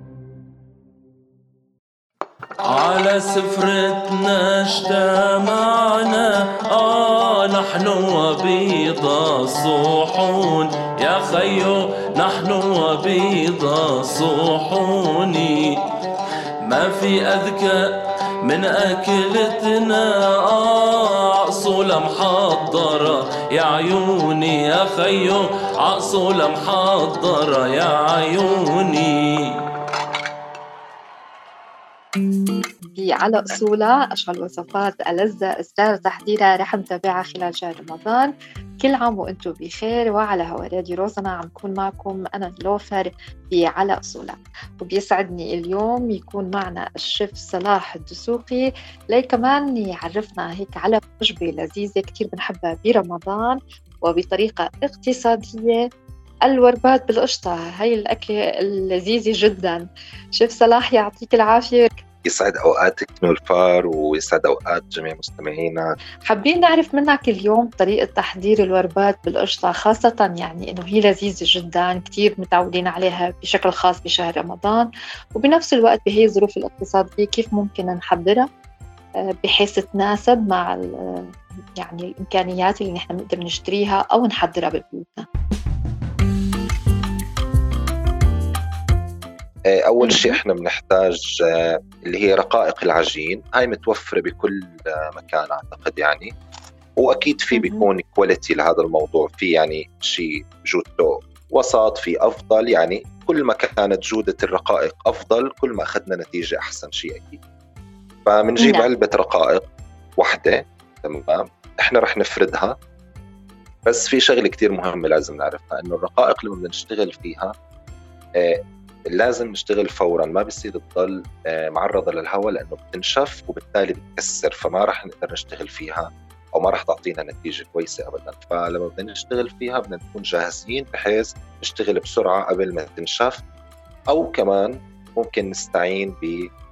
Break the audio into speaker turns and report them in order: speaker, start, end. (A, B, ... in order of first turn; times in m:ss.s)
0:02.6-0:15.8 A
0:16.6-0:29.5 A
0:33.0-0:55.9 B
0:56.4-1:02.0 B
1:02.2-1:05.9 C
1:06.3-1:18.5 B
1:19.4-1:25.3 B
1:29.7-1:36.3 C
1:30.0-1:30.4 B
1:37.0-1:47.4 C
1:37.5-1:37.9 B
1:48.3-1:49.6 C
1:48.6-1:48.9 B
1:50.2-1:52.8 C
1:53.9-1:57.5 C
1:59.1-2:13.4 C
2:14.1-2:16.5 C